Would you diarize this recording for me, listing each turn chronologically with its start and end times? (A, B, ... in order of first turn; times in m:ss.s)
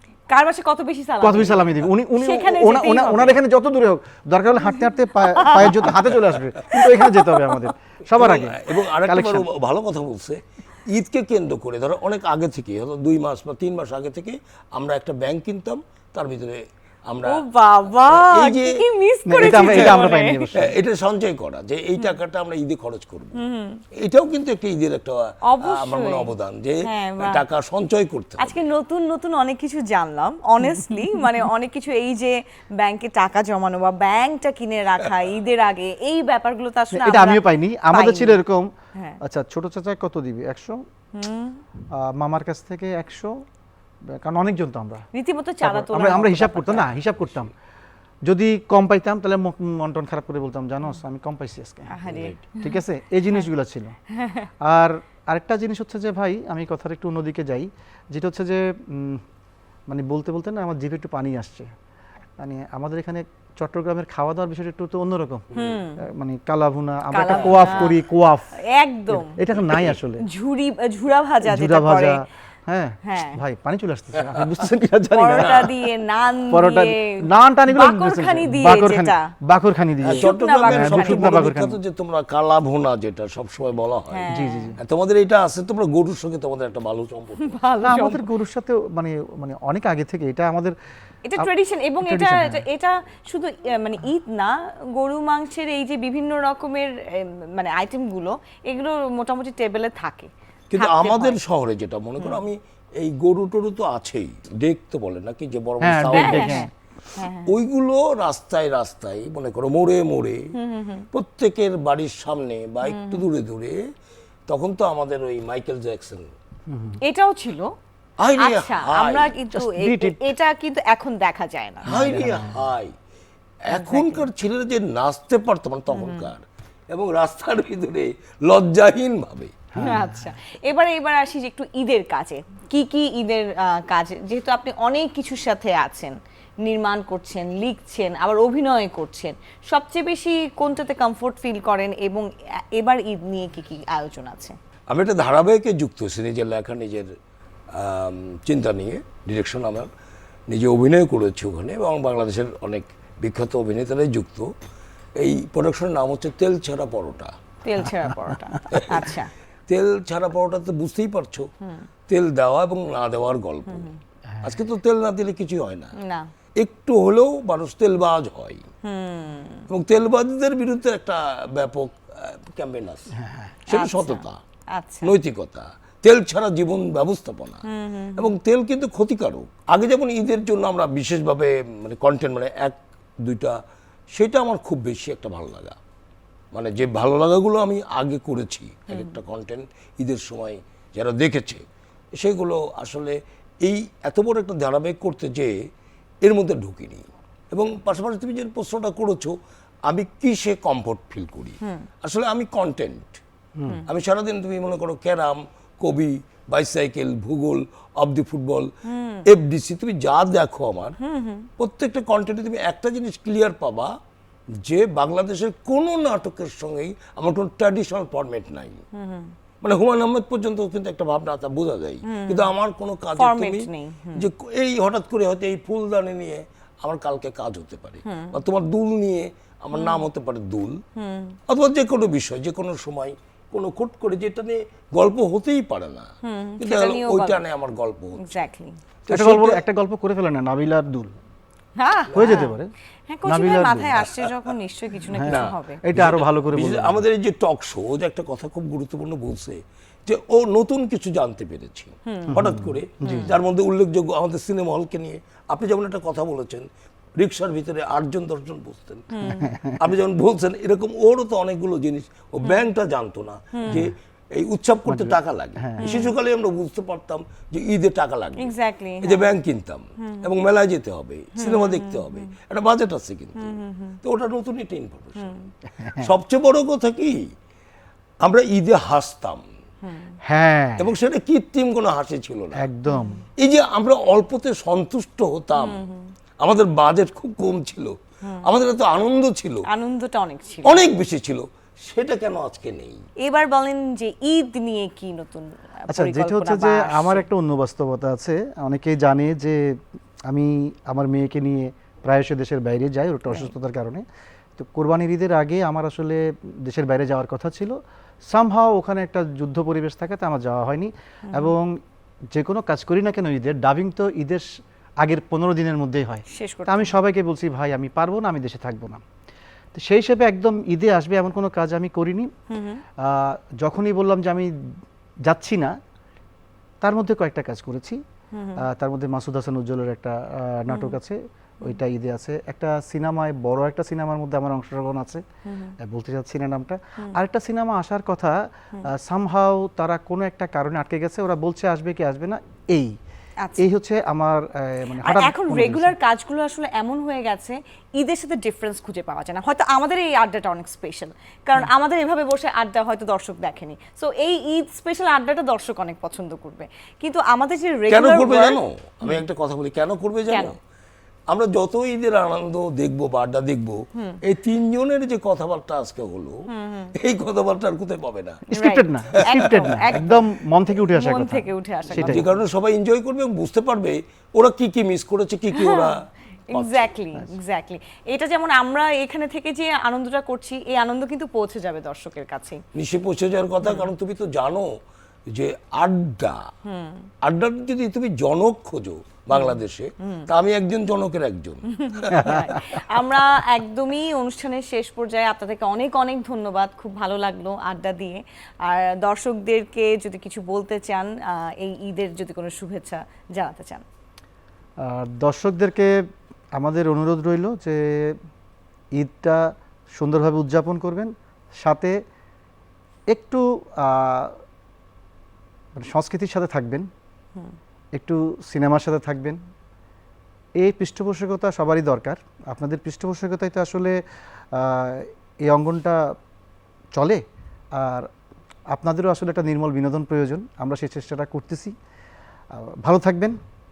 0:00.3-0:03.4 A
0:01.2-0:09.5 B
0:05.2-0:06.0 A
0:06.7-0:07.6 A
0:08.1-0:17.4 C
0:17.3-0:20.5 A
0:18.0-0:18.8 C
0:19.3-0:20.7 B
0:19.4-0:20.0 C
0:20.5-0:23.4 C
0:23.4-0:23.8 A
0:24.0-0:28.6 C
0:25.4-0:26.3 A
0:26.8-0:27.4 A
0:28.4-0:38.4 A
0:36.9-0:40.8 B
0:41.1-0:41.6 A
0:41.9-0:43.4 B
0:44.1-0:45.0 B
0:45.1-0:46.9 A
0:45.6-0:47.5 B
0:48.2-0:52.0 B
0:51.9-0:52.8 A
0:52.0-0:52.4 C
0:52.6-0:53.9 B
0:54.1-0:54.5 A
0:54.6-0:59.2 B
0:59.9-1:01.7 B
1:02.4-1:05.4 B
1:05.5-1:05.8 C
1:05.5-1:06.0 A
1:06.0-1:08.5 B
1:07.1-1:08.0 A
1:07.4-1:07.9 C
1:08.6-1:09.4 A
1:09.1-1:10.2 B
1:09.7-1:10.0 C
1:10.2-1:12.2 A
1:11.4-1:15.7 B
1:13.0-1:13.4 A
1:14.2-1:14.6 C
1:15.2-1:19.3 A
1:15.4-1:15.7 C
1:16.5-1:21.8 B
1:20.0-1:24.3 C
1:20.1-1:21.3 A
1:24.1-1:24.7 A
1:24.3-1:24.8 B
1:24.8-1:27.6 C
1:27.4-1:28.3 A
1:27.8-1:30.7 B
1:31.2-1:41.4 A
1:32.0-1:32.6 B
1:40.7-1:46.7 C
1:45.8-1:46.7 B
1:46.1-1:47.5 A
1:47.5-1:50.5 C
1:50.5-1:51.1 A
1:51.1-1:53.8 C
1:52.9-1:53.2 A
1:54.5-1:56.3 C
1:56.7-1:57.0 B
1:57.0-1:57.7 A
1:58.2-1:59.3 C
1:58.4-2:01.9 A
1:59.5-2:00.2 B
2:01.9-2:02.7 B
2:01.9-2:02.9 C
2:03.7-2:09.8 C
2:03.7-2:04.3 A
2:05.9-2:06.3 A
2:09.7-2:10.3 B
2:09.8-2:24.6 A
2:24.9-2:27.1 C
2:27.7-2:29.9 C
2:30.5-2:34.5 C
2:35.2-2:37.4 C
2:37.6-2:39.3 A
2:38.7-2:39.1 C
2:39.7-2:41.5 C
2:41.6-2:41.9 A
2:42.1-2:43.9 C
2:43.7-2:44.0 A
2:44.4-2:45.9 C
2:46.0-2:46.3 A
2:46.6-2:48.6 C
2:48.8-2:49.7 A
2:49.7-2:53.1 C
2:53.2-2:53.5 B
2:53.7-2:54.4 C
2:53.7-2:55.1 A
2:55.0-2:57.6 C
2:57.7-2:58.3 A
2:58.2-3:03.6 C
3:04.1-3:05.8 C
3:06.5-3:11.6 C
3:08.9-3:09.2 A
3:12.2-3:15.6 C
3:16.2-3:19.4 C
3:19.9-3:23.2 C
3:21.6-3:21.9 A
3:23.9-3:28.7 C
3:28.9-3:29.2 A
3:29.3-3:31.0 C
3:31.0-3:31.5 A
3:31.6-3:33.9 C
3:34.6-3:38.8 C
3:38.9-3:39.3 A
3:39.6-3:50.8 C
3:42.0-3:42.5 A
3:43.2-3:44.3 A
3:48.0-3:48.4 A
3:49.7-3:50.0 A
3:51.0-3:51.4 A
3:51.5-3:56.1 C
3:56.2-3:57.4 A
3:56.6-3:58.4 C
3:58.2-3:58.8 A
3:59.1-3:59.6 C
3:59.1-4:01.2 B
4:01.8-4:02.6 A
4:02.1-4:02.7 B
4:03.1-4:05.8 A
4:03.3-4:03.9 B
4:05.1-4:07.0 B
4:05.2-4:16.7 C
4:12.1-4:12.4 A
4:12.3-4:13.3 B
4:13.0-4:13.4 A
4:17.2-4:19.1 C
4:19.1-4:19.5 A
4:19.4-4:19.8 B
4:19.8-4:35.4 C
4:23.5-4:23.9 A
4:24.9-4:26.0 B
4:25.8-4:26.1 A
4:28.4-4:29.3 A
4:30.0-4:30.3 A
4:31.4-4:32.3 A
4:33.4-4:34.0 A
4:35.2-4:35.5 A
4:35.8-4:36.1 B
4:36.0-4:37.2 C
4:38.2-4:39.4 C
4:39.8-4:40.2 A
4:40.2-4:40.9 B
4:40.8-4:42.7 C
4:42.6-4:43.2 B
4:42.9-4:43.2 A
4:43.4-4:45.8 C
4:45.6-4:46.1 A
4:46.4-4:49.7 C
4:49.7-4:50.9 A
4:50.6-4:53.0 C
4:53.2-4:57.2 A
4:55.9-5:04.0 B
5:04.6-5:11.8 B
5:12.3-5:14.5 B
5:15.0-5:19.0 B
5:16.3-5:16.9 A
5:19.7-5:22.3 B
5:22.5-5:22.8 A
5:23.0-5:24.5 B
5:25.3-5:25.8 B
5:26.8-5:28.0 B
5:28.3-5:28.6 A
5:28.6-5:35.2 B
5:30.7-5:31.0 A
5:35.5-5:35.8 A
5:35.8-5:43.0 B
5:43.4-5:43.7 A
5:43.6-5:46.0 B
5:45.0-5:59.2 A
5:57.9-6:00.6 C
6:00.3-6:00.6 A
6:01.3-6:06.4 C
6:04.0-6:04.2 A
6:06.5-6:06.9 A
6:07.0-6:08.4 C
6:08.5-6:12.4 B
6:08.5-6:10.2 A
6:10.8-6:12.3 A
6:12.0-6:16.0 C
6:15.5-6:15.9 A
6:16.5-6:22.6 A
6:16.5-6:16.9 C
6:22.7-6:24.7 C
6:23.6-6:23.9 A
6:25.3-6:26.5 C
6:26.7-6:27.1 A
6:27.2-6:32.5 C
6:29.3-6:30.3 A
6:31.7-6:43.8 A
6:32.1-6:32.6 B
6:44.8-6:46.0 B
6:46.6-6:48.2 B
6:49.0-6:52.0 B
6:53.1-6:54.4 B
6:55.8-6:56.9 B
6:58.0-6:59.4 B
7:00.6-7:04.0 B
7:04.5-7:06.0 B
7:06.9-7:07.2 B
7:07.8-7:08.1 B
7:08.7-7:11.7 B
7:12.5-7:13.4 B